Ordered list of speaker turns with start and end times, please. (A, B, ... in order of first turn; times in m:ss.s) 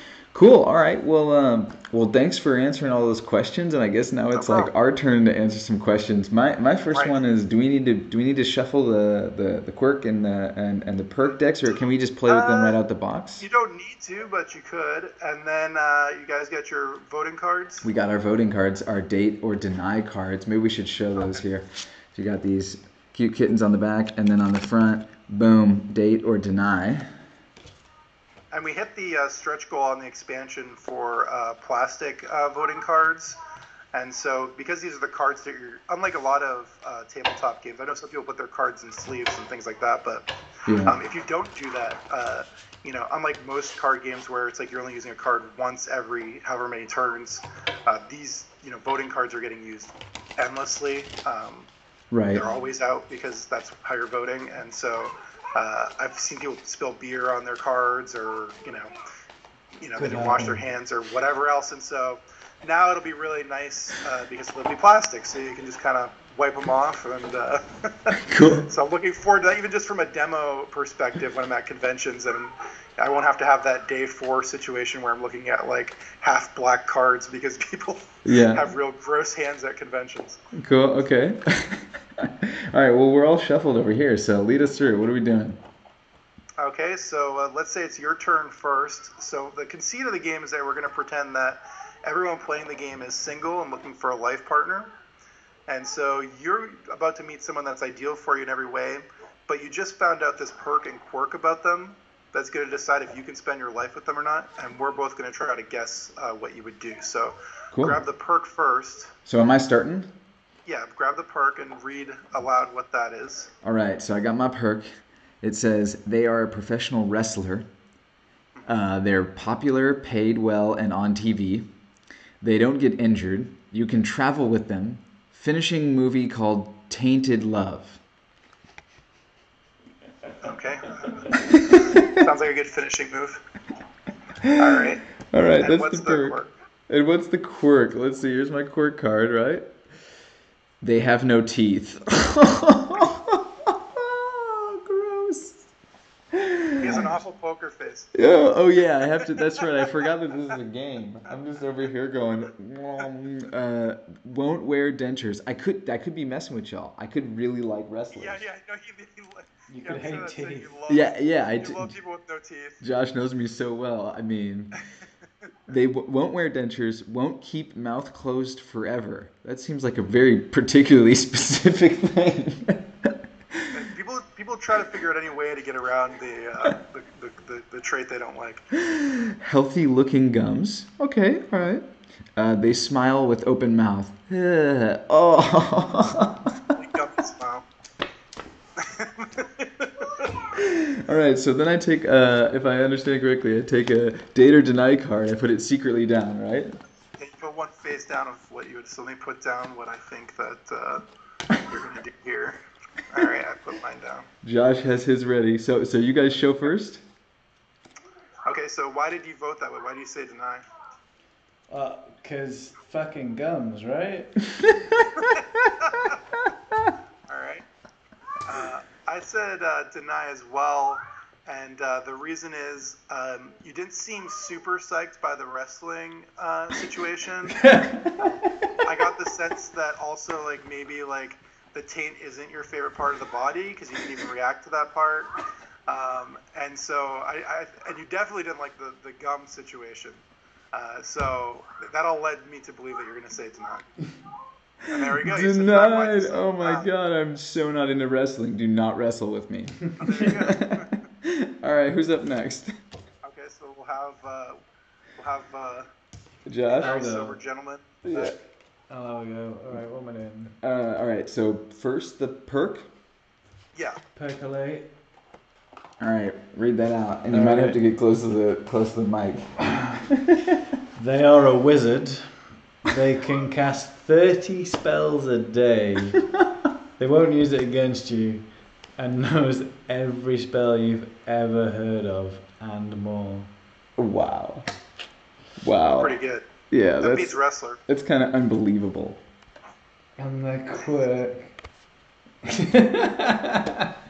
0:00.3-0:13.4 A
0:04.3-0:04.7 B
0:06.9-0:07.2 B
0:12.3-0:12.8 B
0:13.4-0:17.9 B
0:17.8-0:27.1 A
0:21.1-0:21.4 B
0:28.5-0:33.4 B
0:33.9-0:40.3 B
0:40.7-0:41.0 A
0:40.9-0:51.7 B
0:52.1-0:52.4 A
0:52.3-0:58.9 B
0:59.8-1:08.2 B
1:00.0-1:00.6 C
1:08.2-1:08.7 A
1:08.7-1:20.4 B
1:18.2-1:18.6 A
1:20.5-1:25.6 A
1:26.6-1:34.9 B
1:35.7-1:49.2 B
1:47.7-1:48.0 A
1:49.3-1:50.1 A
1:50.7-1:53.5 B
1:53.6-1:54.9 A
1:55.4-1:57.7 A
1:58.7-2:01.7 A
2:02.4-2:08.0 A
2:10.4-2:13.4 B
2:11.6-2:12.2 A
2:14.4-2:14.8 A
2:14.6-2:15.0 B
2:15.3-2:16.4 A
2:15.6-2:16.5 B
2:16.9-2:19.6 A
2:20.8-2:25.7 A
2:26.3-2:27.2 A
2:26.8-2:28.1 B
2:28.2-2:38.4 A
2:29.2-2:29.6 B
2:38.1-2:42.8 B
2:39.7-2:40.8 C
2:40.9-2:41.9 A
2:42.8-2:44.7 A
2:45.7-2:53.7 A
2:53.7-2:58.7 B
2:58.8-3:06.6 A
3:06.8-3:07.7 B
3:08.8-3:10.3 B
3:10.5-3:16.8 A
3:17.2-3:22.6 B
3:23.1-3:24.3 B
3:24.4-3:27.0 A
3:28.5-3:30.6 B
3:31.7-3:34.4 C
3:35.4-3:36.2 B
3:37.3-3:37.7 B
3:38.4-3:47.6 B
3:47.6-3:47.9 C
3:48.2-3:55.3 B
3:55.9-4:03.9 B
4:04.9-4:06.9 B
4:05.2-4:12.8 A
4:10.0-4:11.0 B
4:13.2-4:14.6 B
4:15.2-4:15.9 B
4:16.5-4:17.0 A
4:16.7-4:18.3 B
4:16.8-4:17.4 C
4:18.0-4:18.4 A
4:18.9-4:20.5 C
4:20.6-4:22.9 A
4:24.2-4:24.9 C
4:26.0-4:30.6 A
4:27.3-4:27.8 C
4:31.0-4:36.3 C
4:37.0-4:43.5 C
4:44.0-4:44.6 A
4:45.6-4:46.2 A
4:46.0-4:46.5 B
4:46.7-4:47.3 A
4:47.0-4:47.8 B
4:47.9-4:49.2 A
4:50.2-4:51.5 C
4:52.4-4:53.9 C